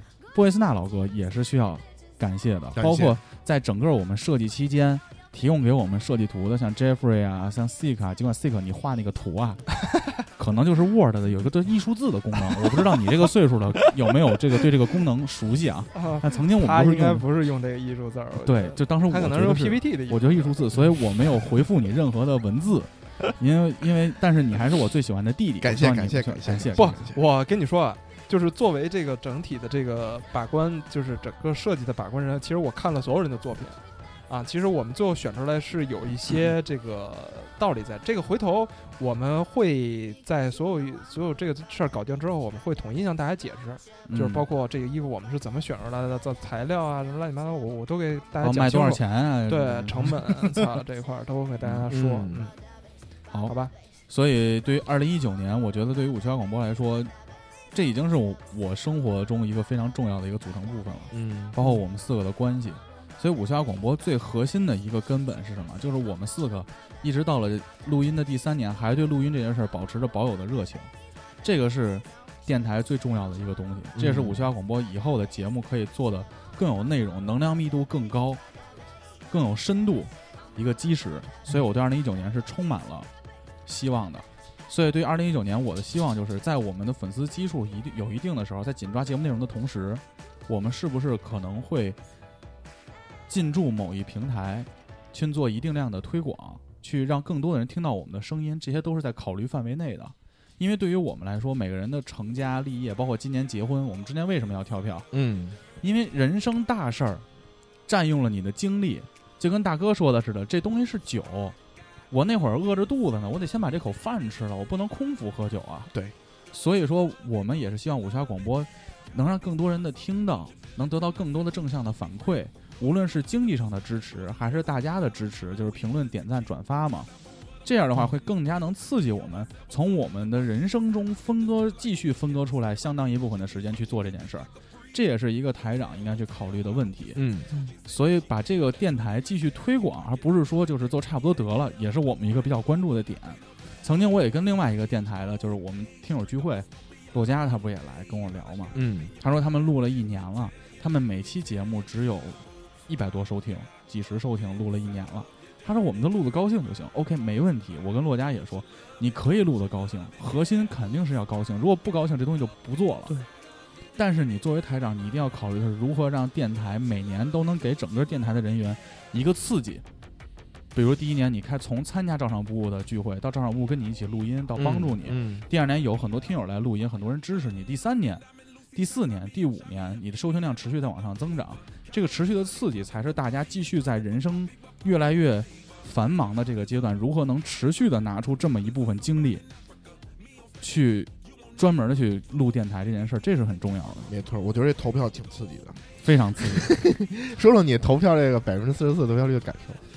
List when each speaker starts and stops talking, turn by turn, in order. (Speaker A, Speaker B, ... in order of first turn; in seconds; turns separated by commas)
Speaker A: 0.3-17.3, Speaker B: 2.8-3.2, Speaker C: 15.9-20.6, Speaker A: 18.4-27.0, Speaker B: 25.6-27.2, Speaker C: 26.8-52.5, Speaker A: 44.1-44.5, Speaker A: 48.4-50.6, Speaker B: 51.9-52.5, Speaker C: 53.5-53.7, Speaker A: 54.1-57.1, Speaker A: 57.7-70.9, Speaker B: 61.1-61.6, Speaker A: 71.4-78.4, Speaker B: 73.9-74.5, Speaker A: 79.3-83.1, Speaker A: 83.7-92.0, Speaker A: 93.3-105.1, Speaker B: 105.1-105.6, Speaker A: 105.8-107.2, Speaker A: 107.9-111.5, Speaker A: 112.1-115.9, Speaker A: 116.5-127.1, Speaker A: 127.6-137.2, Speaker B: 137.1-137.5, Speaker A: 137.8-163.1, Speaker B: 148.7-149.1, Speaker A: 163.9-169.8, Speaker A: 170.7-189.4, Speaker B: 174.6-175.5, Speaker A: 190.6-194.1, Speaker B: 194.1-195.8, Speaker A: 196.0-196.7, Speaker B: 196.4-199.8